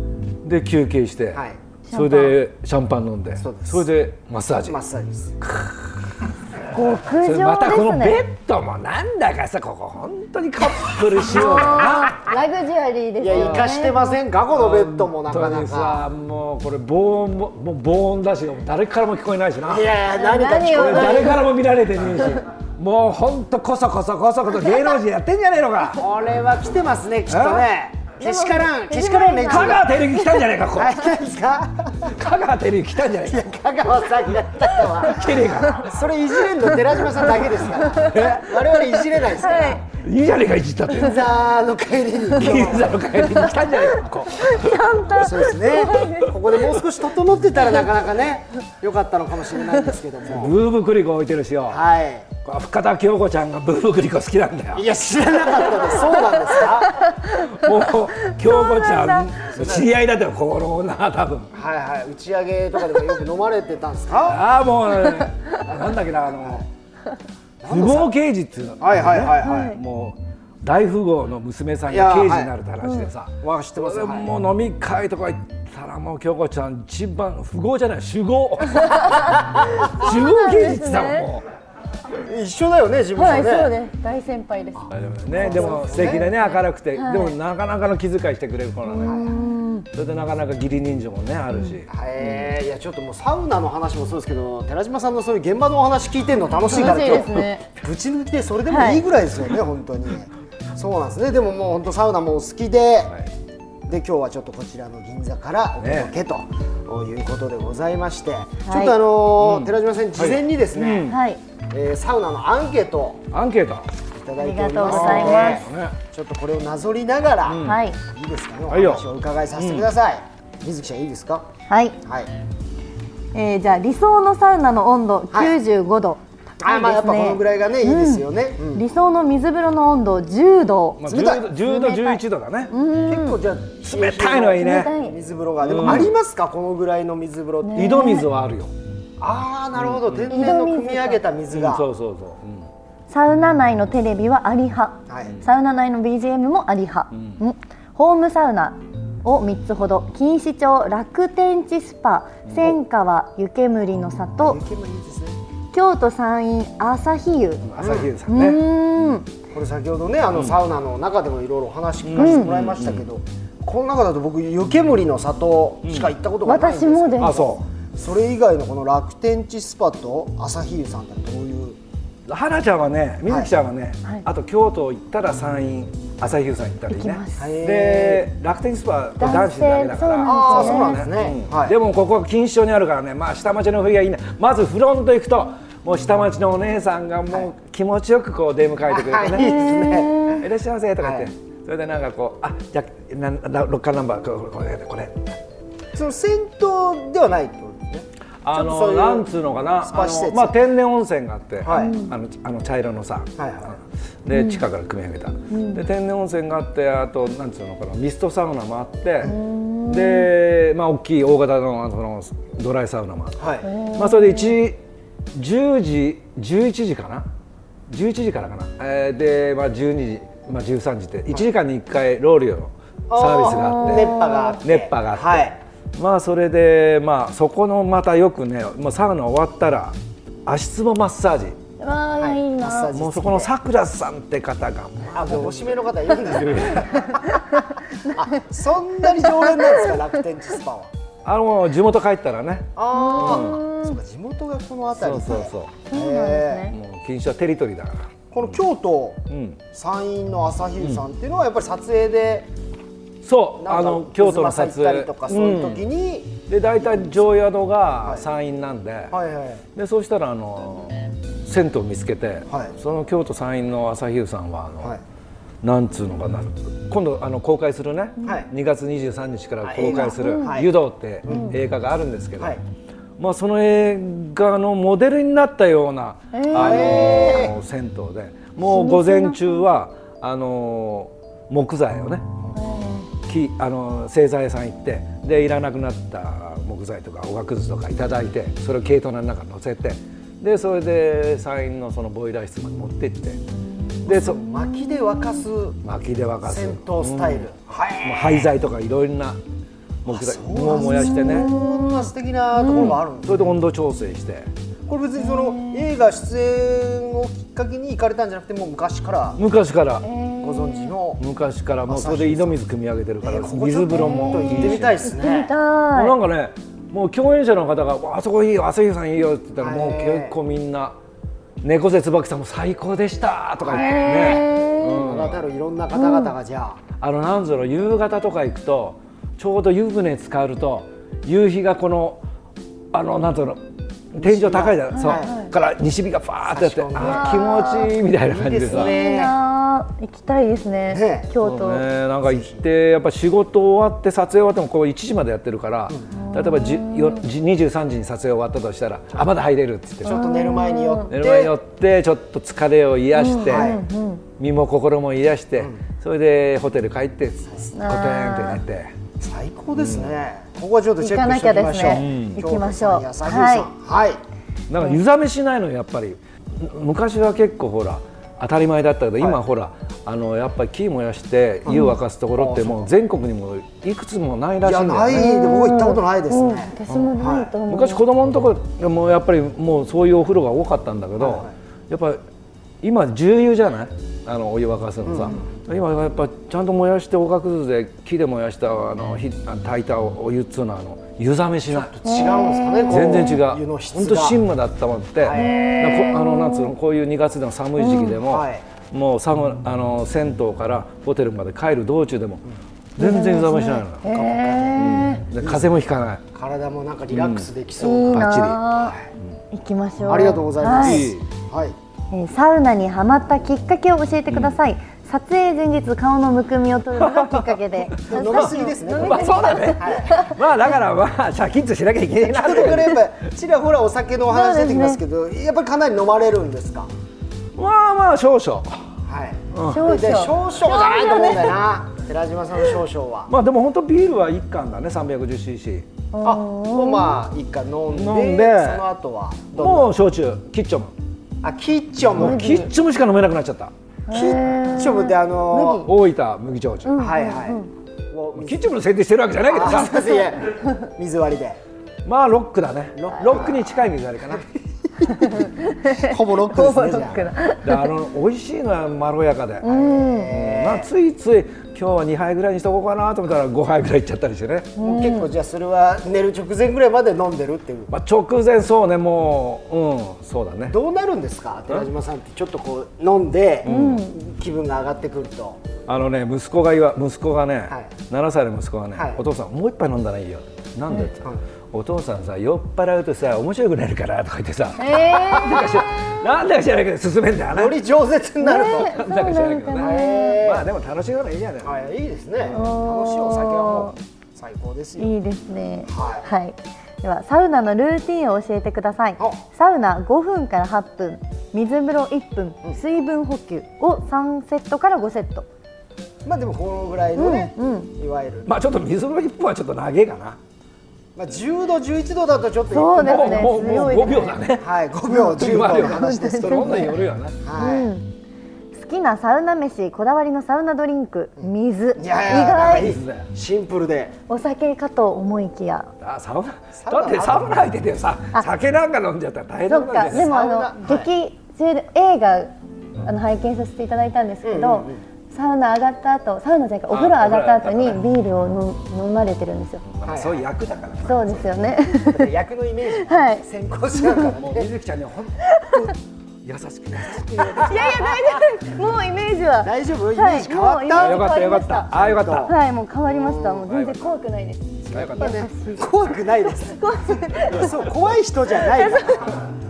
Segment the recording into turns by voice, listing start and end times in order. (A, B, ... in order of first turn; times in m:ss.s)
0:00.4-0:04.8 A
0:01.3-0:01.6 B
0:01.9-0:02.4 C
0:03.4-0:03.9 B
0:04.6-0:05.4 B
0:05.4-0:12.2 A
0:06.7-0:08.2 C
0:11.2-0:14.1 C
0:13.2-0:16.1 B
0:13.3-0:13.7 A
0:14.5-0:19.9 A
0:19.7-0:21.5 B
0:20.1-0:21.4 C
0:20.7-0:26.0 A
0:22.0-0:22.4 B
0:25.9-0:29.9 B
0:27.3-0:27.6 A
0:28.2-0:30.4 C
0:29.5-0:31.0 A
0:30.7-0:32.2 B
0:32.1-0:33.4 A
0:33.2-0:39.8 B
0:35.0-0:36.0 A
0:37.2-0:38.5 A
0:37.8-0:38.2 C
0:39.3-0:39.8 C
0:39.8-0:41.3 A
0:41.0-0:43.2 B
0:42.4-0:44.8 A
0:43.4-0:43.6 C
0:44.4-0:46.3 C
0:45.2-0:50.6 B
0:45.8-0:46.1 A
0:50.3-0:51.8 A
0:51.7-0:52.3 B
0:52.4-0:54.9 A
0:54.7-0:57.0 B
0:57.0-0:57.5 C
0:57.2-1:01.5 A
0:58.3-0:59.4 C
0:59.5-0:59.9 B
1:01.5-1:04.4 B
1:04.2-1:06.7 A
1:06.4-1:06.6 B
1:07.6-1:08.1 B
1:07.7-1:21.5 A
1:08.8-1:09.7 B
1:09.4-1:09.8 C
1:11.9-1:12.5 B
1:12.8-1:13.1 C
1:13.4-1:14.3 B
1:18.9-1:19.5 C
1:19.6-1:19.9 B
1:20.0-1:21.3 C
1:22.2-1:23.7 B
1:23.2-1:27.4 C
1:24.8-1:26.3 B
1:24.9-1:29.2 A
1:28.9-1:29.9 C
1:29.0-1:29.3 B
1:29.9-1:32.5 A
1:31.5-1:31.8 C
1:31.9-1:43.1 B
1:36.6-1:37.6 C
1:37.1-1:37.4 A
1:38.7-1:39.0 C
1:43.9-1:51.1 B
1:45.8-1:46.1 A
1:48.6-1:49.0 C
1:49.4-1:51.2 A
1:51.0-1:51.4 C
1:51.7-1:53.2 B
1:53.3-1:53.9 A
1:54.1-2:01.5 B
1:54.4-1:55.7 C
1:54.8-1:56.0 A
1:57.5-1:57.8 A
1:57.6-1:58.0 C
1:58.7-1:59.9 A
2:01.7-2:02.0 C
2:02.0-2:02.3 B
2:03.3-2:13.4 C
2:06.6-2:08.8 B
2:11.0-2:12.7 A
2:11.1-2:11.5 B
2:13.1-2:17.9 B
2:13.8-2:14.9 A
2:14.5-2:15.2 C
2:15.6-2:16.1 A
2:17.6-2:18.3 C
2:17.8-2:18.7 A
2:19.2-2:21.9 B
2:19.8-2:20.5 A
2:20.3-2:21.2 C
2:21.5-2:22.7 A
2:23.1-2:34.6 C
2:25.1-2:25.4 B
2:27.1-2:27.4 A
2:32.5-2:32.8 A
2:34.4-2:35.4 B
2:35.7-2:37.6 C
2:37.6-2:38.6 A
2:37.8-2:38.1 B
2:38.3-2:39.3 C
2:39.5-2:51.8 B
2:42.0-2:43.0 A
2:42.2-2:42.5 C
2:45.8-2:46.1 A
2:46.4-2:47.6 C
2:47.2-2:47.6 A
2:52.3-3:09.7 A
2:53.3-2:53.5 B
2:56.9-2:57.5 C
2:57.4-2:58.3 B
2:59.2-3:01.0 C
3:00.2-3:01.8 B
3:08.9-3:10.4 B
3:09.3-3:10.4 C
3:10.4-3:15.4 A
3:11.0-3:11.3 B
3:15.9-3:19.3 B
3:18.4-3:29.4 A
3:19.8-3:20.6 B
3:21.6-3:21.9 B
3:21.8-3:22.1 C
3:23.4-3:23.8 B
3:24.3-3:24.6 C
3:25.5-3:25.8 C
3:29.2-3:30.3 C
3:29.9-3:34.8 A
3:33.4-3:33.7 B
3:33.6-3:34.6 C
3:35.3-3:37.3 A
3:37.9-3:51.6 A
3:43.1-3:45.6 B
3:43.4-3:44.6 C
3:51.8-3:52.9 C
3:52.2-3:53.5 B
3:52.9-3:57.0 A
3:55.1-3:57.2 B
3:57.0-3:58.2 C
3:58.1-4:00.9 B
3:59.2-3:59.9 C
4:01.2-4:03.6 A
4:02.8-4:06.7 B
4:02.9-4:04.0 C
4:05.0-4:05.8 A
4:05.9-4:06.8 C
4:06.7-4:08.6 A
4:08.3-4:12.5 B
4:09.3-4:09.6 A
4:13.2-4:15.9 A
4:13.6-4:17.2 B
4:16.5-4:19.2 A
4:19.1-4:19.6 B
4:19.8-4:25.0 A
4:22.5-4:22.8 B
4:25.6-4:32.6 A
4:28.2-4:28.5 B
4:29.6-4:30.7 B
4:29.8-4:30.6 C
4:31.2-4:31.6 B
4:31.3-4:31.6 C
4:33.2-4:42.3 A
4:36.3-4:37.5 C
4:36.5-4:37.6 B
4:38.6-4:39.6 C
4:42.6-4:43.1 C
4:43.3-4:53.4 A
4:54.0-4:55.2 C
4:54.1-4:54.4 A
4:54.1-4:55.8 B
4:55.8-4:57.5 A
4:56.4-4:58.5 B
4:58.0-4:59.4 A
5:00.0-5:01.5 A
5:00.1-5:03.6 B
5:00.7-5:03.0 C
5:02.7-5:04.5 A
5:04.9-5:09.4 B
5:05.2-5:05.9 C
5:09.4-5:10.1 A
5:10.0-5:11.0 C
5:10.4-5:11.2 B
5:11.2-5:15.0 A
5:11.9-5:12.6 B
5:13.2-5:15.5 B
5:13.9-5:16.2 C
5:15.9-5:21.0 A
5:19.6-5:20.4 B
5:21.6-5:25.4 A
5:23.6-5:26.8 B
5:23.7-5:25.0 C
5:25.9-5:26.3 C
5:27.0-5:32.2 A
5:32.9-5:39.0 A
5:34.2-5:35.4 B
5:34.9-5:35.5 C
5:36.5-5:37.5 B
5:37.0-5:37.9 C
5:38.3-5:39.3 B
5:38.7-5:41.8 C
5:40.9-5:41.3 B
5:41.4-5:50.2 A
5:42.2-5:42.6 B
5:46.1-5:47.2 C
5:50.0-5:51.5 B
5:50.0-5:51.1 C
5:51.1-5:53.8 A
5:53.2-5:54.2 C
5:53.4-5:53.8 B
5:54.4-5:59.0 A
5:57.7-5:58.6 C
5:59.2-6:04.2 B
5:59.8-6:00.2 A
6:01.0-6:03.7 C
6:01.9-6:02.4 A
6:04.7-6:15.3 A
6:11.7-6:12.0 C
6:11.7-6:12.9 B
6:14.6-6:17.5 B
6:15.1-6:18.0 C
6:17.7-6:22.2 A
6:21.2-6:21.5 B
6:22.8-6:31.9 A
6:25.0-6:25.4 B
6:31.7-6:34.4 B
6:32.0-6:33.3 C
6:32.9-6:42.4 A
6:35.2-6:35.8 B
6:35.3-6:36.7 C
6:37.8-6:38.2 C
6:38.2-6:38.6 B
6:43.0-6:44.1 A
6:43.0-6:45.3 C
6:44.1-6:45.7 B
6:44.8-6:46.2 A
6:46.3-6:49.1 B
6:47.1-6:47.5 A
6:47.8-6:49.0 C
6:48.1-6:48.6 A
6:49.5-6:51.1 C
6:50.0-6:51.8 B
6:50.7-6:51.3 A
6:52.1-7:00.4 C
6:54.3-6:54.6 A
6:57.0-7:03.0 A
6:58.1-7:00.3 B
7:02.2-7:06.9 B
7:04.3-7:05.0 C
7:07.6-7:08.9 A
7:09.1-7:13.3 B
7:09.5-7:09.8 A
7:09.6-7:11.6 C
7:13.3-7:15.9 A
7:16.1-7:17.2 C
7:16.2-7:19.9 B
7:17.9-7:18.8 A
7:19.5-7:20.9 A
7:21.4-7:22.6 B
7:22.2-7:23.7 A
7:22.2-7:22.7 C
7:24.1-7:25.9 C
7:24.1-7:25.9 B
7:25.9-7:27.0 A
7:26.9-7:27.7 C
7:27.0-7:28.7 B
7:28.4-7:30.2 A
7:29.5-7:31.6 B
7:32.0-7:34.5 A
7:33.0-7:34.4 B
7:35.0-7:37.3 B
7:35.0-7:37.9 C
7:37.6-7:39.7 A
7:39.6-7:40.3 C
7:39.6-7:40.9 B
7:40.3-7:44.7 A
7:44.8-7:45.3 C
7:44.8-7:47.9 B
7:47.9-7:50.8 A
7:50.7-7:55.6 B
7:53.6-7:54.1 A
7:53.6-7:54.2 C
7:55.9-8:07.8 A
7:59.0-7:59.2 B
8:04.8-8:05.8 C
8:05.4-8:05.7 B
8:07.5-8:09.0 B
8:08.4-8:10.4 C
8:08.6-8:11.7 A
8:09.8-8:10.7 B
8:11.6-8:15.1 B
8:12.5-8:14.0 C
8:15.0-8:25.5 C
8:15.9-8:16.3 B
8:26.2-8:28.5 B
8:27.2-8:27.9 C
8:28.5-8:30.4 A
8:31.2-8:33.8 B
8:32.7-8:34.4 C
8:32.9-8:37.4 A
8:34.6-8:37.9 B
8:35.1-8:37.0 C
8:37.6-8:38.1 C
8:38.7-8:43.0 C
8:41.4-8:44.2 B
8:42.7-8:43.3 A
8:44.3-8:45.9 C
8:46.0-8:50.3 A
8:46.8-8:47.7 B
8:49.7-8:59.8 C
8:50.1-8:51.1 B
8:54.4-8:55.0 B
8:56.9-8:58.0 A
8:59.8-9:01.7 A
9:00.0-9:00.4 B
9:01.0-9:02.3 C
9:02.1-9:04.7 B
9:03.0-9:03.4 C
9:04.0-9:04.3 C
9:04.3-9:08.1 A
9:05.4-9:05.9 C
9:07.1-9:08.2 B
9:07.6-9:11.9 C
9:09.6-9:11.2 B
9:10.9-9:12.5 A
9:11.9-9:12.6 B
9:12.4-9:15.8 C
9:13.1-9:13.7 B
9:13.6-9:14.1 A
9:14.9-9:16.8 B
9:14.9-9:15.4 A
9:16.7-9:17.8 C
9:17.4-9:19.4 B
9:18.5-9:19.4 C